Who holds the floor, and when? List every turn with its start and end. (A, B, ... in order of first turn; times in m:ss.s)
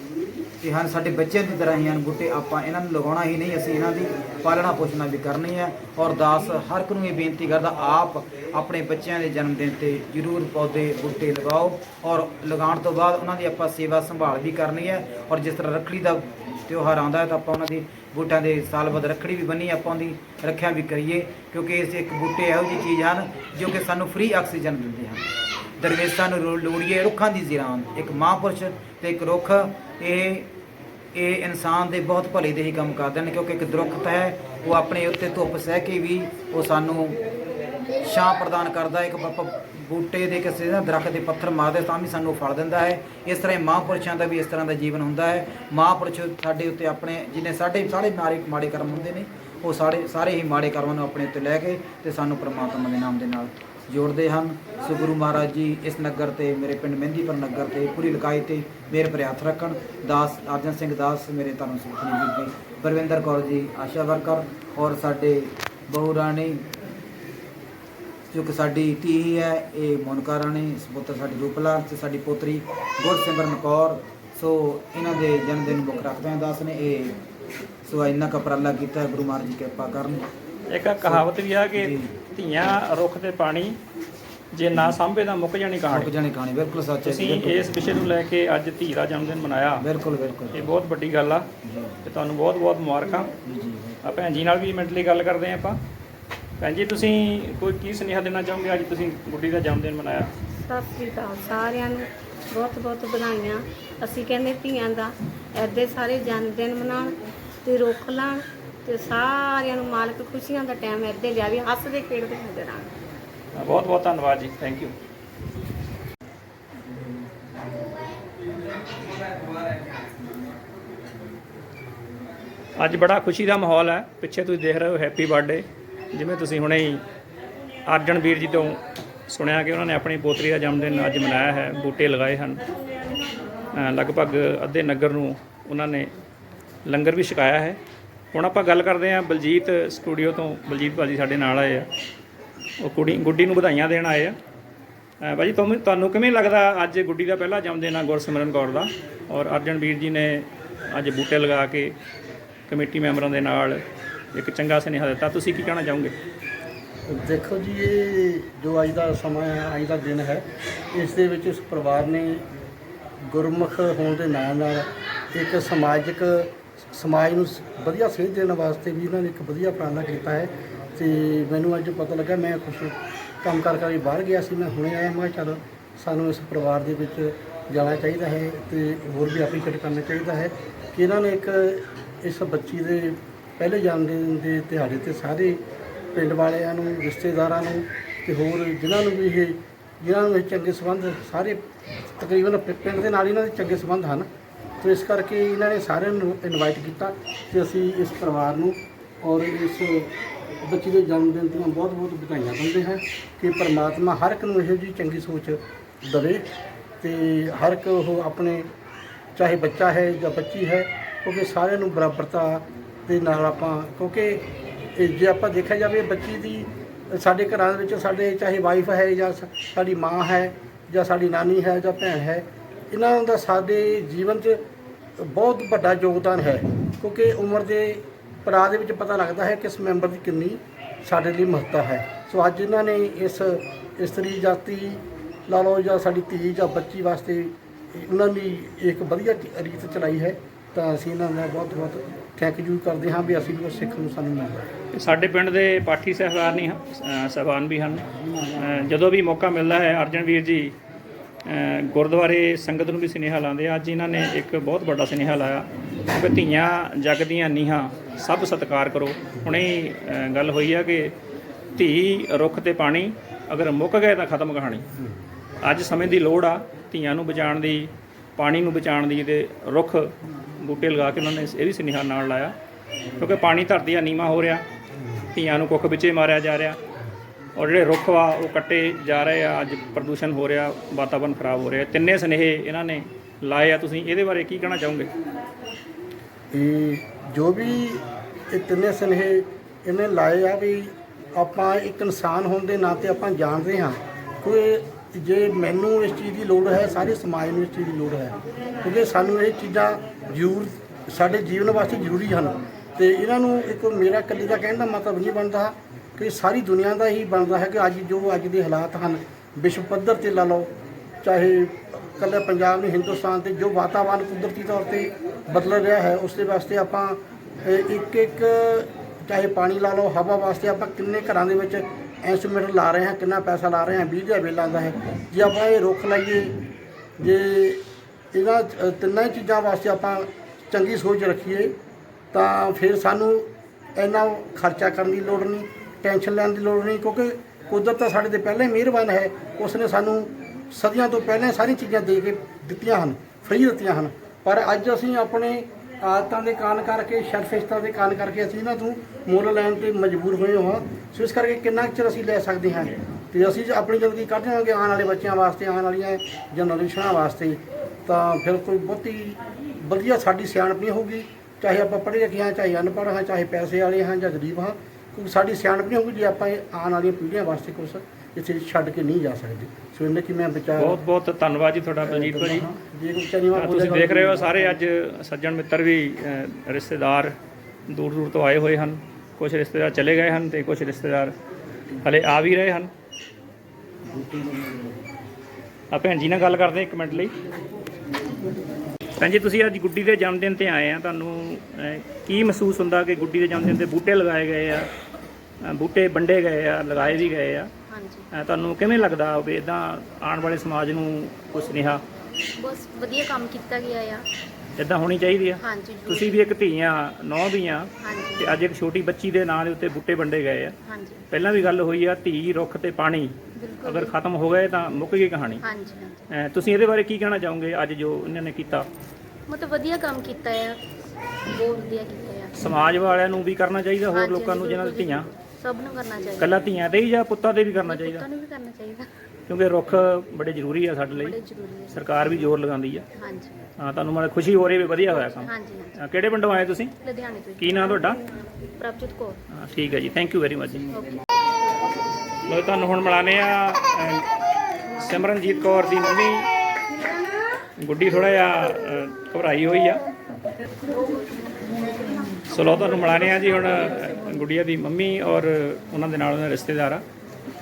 0:00.6-0:25.3 A
0:25.8-0:30.5 A
0:31.1-0:37.2 A
0:38.0-1:06.6 A
1:08.3-1:17.2 A
1:17.8-1:20.3 A
1:20.7-1:23.8 B
1:21.0-1:22.1 A
1:24.5-1:26.1 B
1:25.9-1:27.8 A
1:27.0-1:29.8 B
1:29.8-1:30.7 A
1:30.5-1:31.5 B
1:31.6-1:32.0 A
1:32.0-1:33.3 B
1:33.4-1:34.0 A
1:34.0-1:35.8 B
1:36.6-1:40.3 B
1:40.7-1:52.9 C
1:53.6-1:55.0 B
2:02.8-2:07.0 B
2:07.9-2:12.6 B
2:13.7-2:16.1 B
2:16.9-2:17.8 B
2:18.3-2:21.9 B
2:22.8-2:24.4 B
2:25.2-2:32.0 B
2:32.7-2:33.8 B
2:34.3-2:36.1 B
2:37.1-2:42.4 D
2:43.3-3:05.6 D
3:06.1-3:11.6 D
3:12.2-3:14.3 D
3:14.8-3:20.1 D
3:20.6-3:26.4 D
3:27.0-3:28.7 D
3:29.4-3:34.4 D
3:35.0-3:44.6 D
3:45.2-4:04.7 D
4:04.9-4:10.7 B
4:11.5-4:21.1 B
4:21.8-4:24.8 B
4:25.6-4:32.5 B
4:33.2-4:34.6 B
4:35.3-4:36.8 B
4:37.6-4:45.1 B
4:46.5-5:10.7 D
5:11.2-5:26.5 D
5:27.2-5:27.8 D
5:28.3-5:31.7 D
5:32.3-6:11.0 D
6:10.8-6:12.7 B
6:12.0-6:14.8 D
6:13.5-6:17.4 B
6:17.9-6:21.3 B
6:22.0-6:22.9 B
6:24.1-6:24.8 A
6:25.9-6:27.3 B
6:29.2-6:34.9 B
6:35.6-6:37.7 B
6:37.0-6:38.3 E
6:38.3-6:42.0 B
6:42.6-6:44.2 E
6:44.8-6:50.8 B
6:45.6-6:46.4 E
6:48.0-6:48.6 E
6:50.8-6:51.2 E
6:51.3-6:55.6 B
6:53.6-6:54.2 E
6:55.6-6:56.2 E
6:56.3-6:58.9 B
6:59.5-7:00.8 E
7:01.5-7:02.6 E
7:02.6-7:05.3 B
7:04.1-7:06.6 E
7:06.4-7:08.3 B
7:07.8-7:09.1 E
7:09.5-7:11.4 B
7:11.2-7:12.3 E
7:11.9-7:13.0 B
7:13.2-7:13.6 E
7:13.8-7:16.9 B
7:15.1-7:16.0 E
7:17.0-7:18.2 E
7:17.6-7:18.2 B
7:18.8-7:19.4 E
7:19.6-7:20.9 B
7:20.8-7:21.2 E
7:22.5-7:24.2 B
7:25.0-7:26.5 B
7:27.8-7:30.0 B
7:32.5-7:37.0 B